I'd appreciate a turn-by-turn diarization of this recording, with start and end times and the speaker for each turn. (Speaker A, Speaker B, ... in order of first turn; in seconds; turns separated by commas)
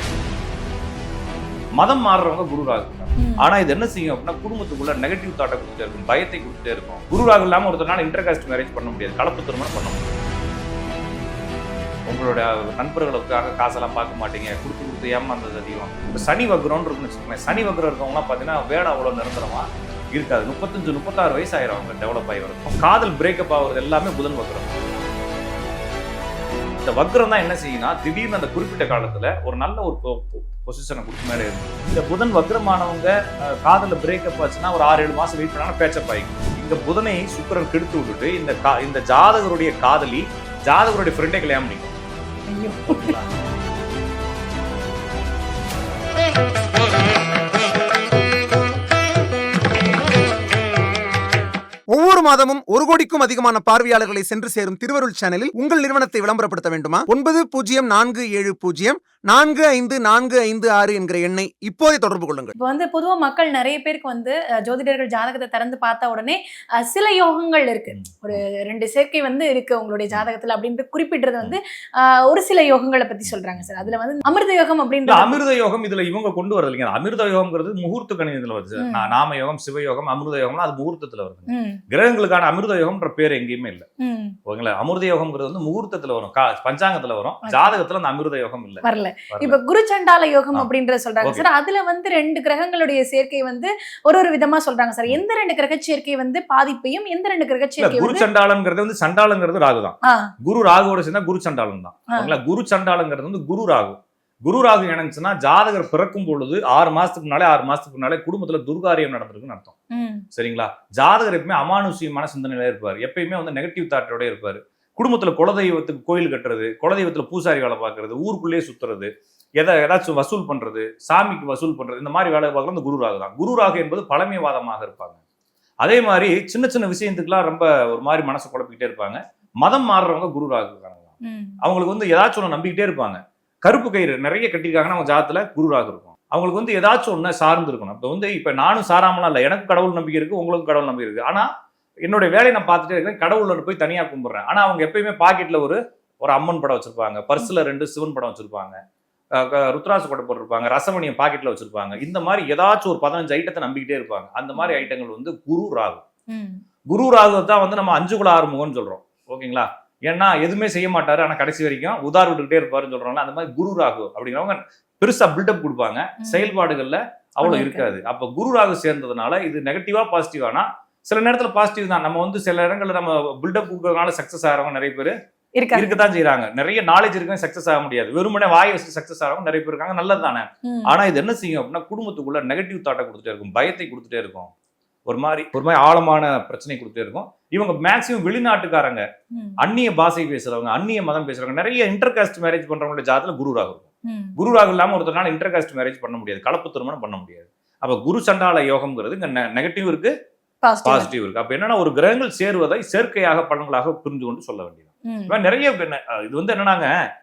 Speaker A: 1.8-10.0, Speaker B: 3.2-3.5, Speaker A: 12.1-24.8, Speaker A: 26.8-42.0, Speaker B: 42.5-43.1, Speaker A: 42.9-43.3, Speaker C: 51.9-62.5, Speaker B: 62.6-75.4, Speaker A: 67.9-68.4, Speaker A: 73.3-73.9, Speaker A: 75.1-83.9, Speaker B: 78.8-79.1, Speaker B: 81.5-81.8, Speaker B: 84.0-84.3, Speaker A: 84.5-89.6, Speaker B: 87.5-87.8, Speaker B: 88.8-98.2, Speaker A: 97.8-109.7, Speaker B: 109.9-110.2, Speaker A: 110.3-125.2, Speaker A: 125.8-141.5, Speaker B: 131.2-131.6, Speaker A: 142.0-148.8, Speaker A: 149.3-156.0, Speaker B: 154.6-154.8, Speaker B: 156.3-156.6, Speaker A: 156.9-175.1, Speaker B: 166.2-166.5, Speaker B: 167.4-167.9, Speaker B: 175.6-176.0, Speaker A: 175.7-184.5, Speaker B: 180.6-180.9, Speaker A: 185.1-189.1, Speaker B: 189.3-189.6, Speaker A: 189.6-200.1, Speaker B: 194.1-194.4, Speaker B: 200.6-201.1, Speaker A: 200.8-206.9, Speaker B: 205.1-205.4